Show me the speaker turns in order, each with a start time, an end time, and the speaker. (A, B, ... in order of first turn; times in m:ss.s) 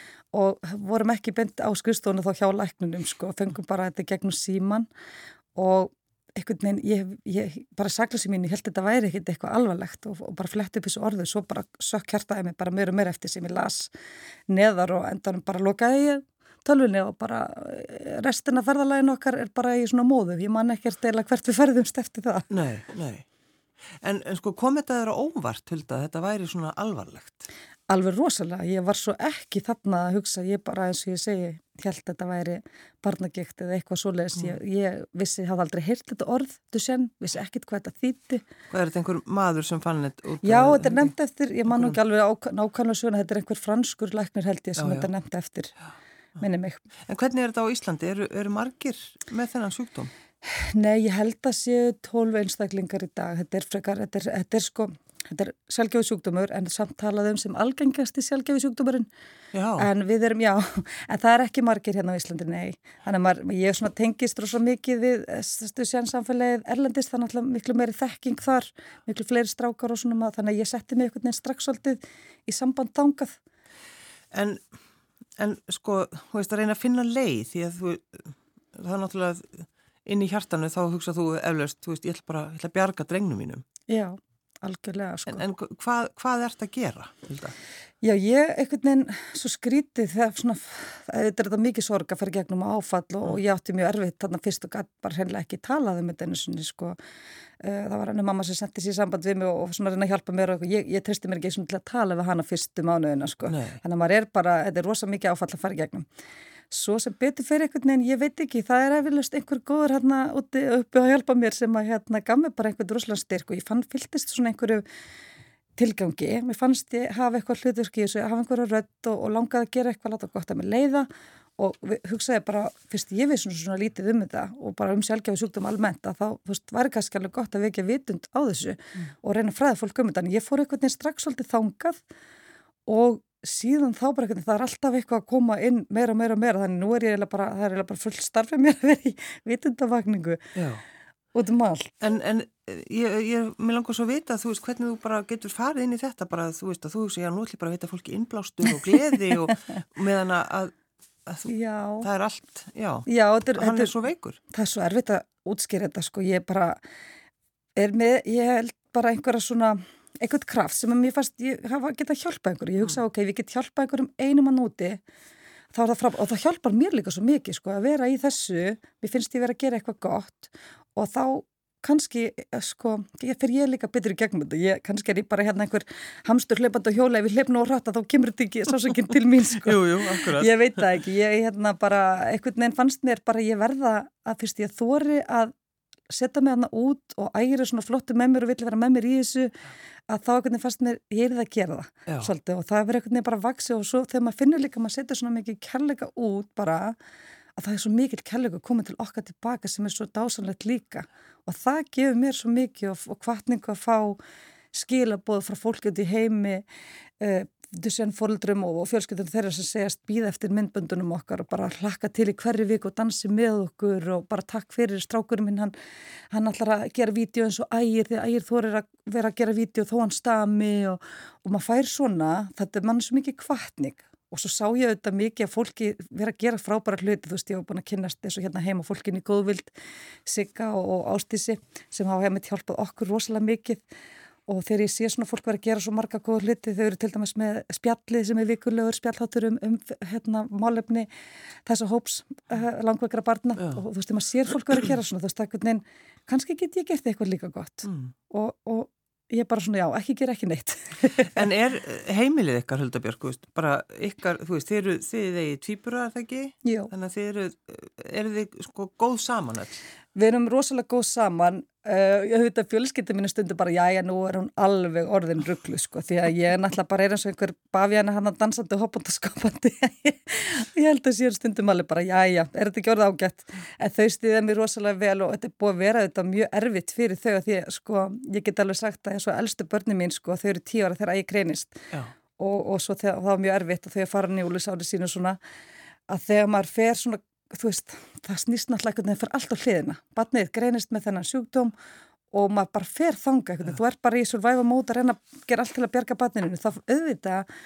0:00.3-0:04.9 A
0:05.5-0:13.9 A
0:14.5-0:22.5 A
0:22.5-0:23.2 B
0:24.0-0:27.4 B
0:27.9-0:38.4 A
0:38.7-0:41.1 B
0:40.4-0:45.7 A
0:41.7-0:42.0 B
0:44.8-0:45.1 B
0:46.4-0:46.8 A
0:47.1-0:50.1 B
0:50.4-0:59.1 A
0:59.5-0:59.9 B
0:59.8-1:13.4 A
1:14.3-1:14.6 B
1:15.4-1:23.6 B
1:23.9-1:25.4 A
1:25.3-1:27.5 B
1:28.0-1:37.0 A
1:37.6-1:46.0 A
1:43.5-1:43.8 B
1:46.7-1:54.8 A
1:55.8-2:12.0 A
2:12.8-2:20.5 A
2:20.5-2:20.8 B
2:21.3-2:22.0 A
2:22.0-2:30.7 B
2:31.3-2:34.4 B
2:31.5-2:32.1 A
2:33.1-2:34.0 A
2:34.5-2:36.8 A
2:37.8-2:45.0 A
2:45.7-3:05.5 A
2:59.6-3:00.5 B
3:06.1-3:09.5 A
3:10.1-3:17.0 A
3:17.6-3:24.2 A
3:24.7-3:26.6 A
3:27.2-3:35.7 A
3:36.3-3:49.7 A
3:50.2-3:53.8 A
3:54.5-4:01.1 A
4:01.6-4:11.5 A
4:07.8-4:08.1 B
4:11.3-4:19.8 B
4:16.6-4:16.9 A
4:20.2-4:45.4 A
4:46.1-4:51.7 A
4:52.3-4:57.5 A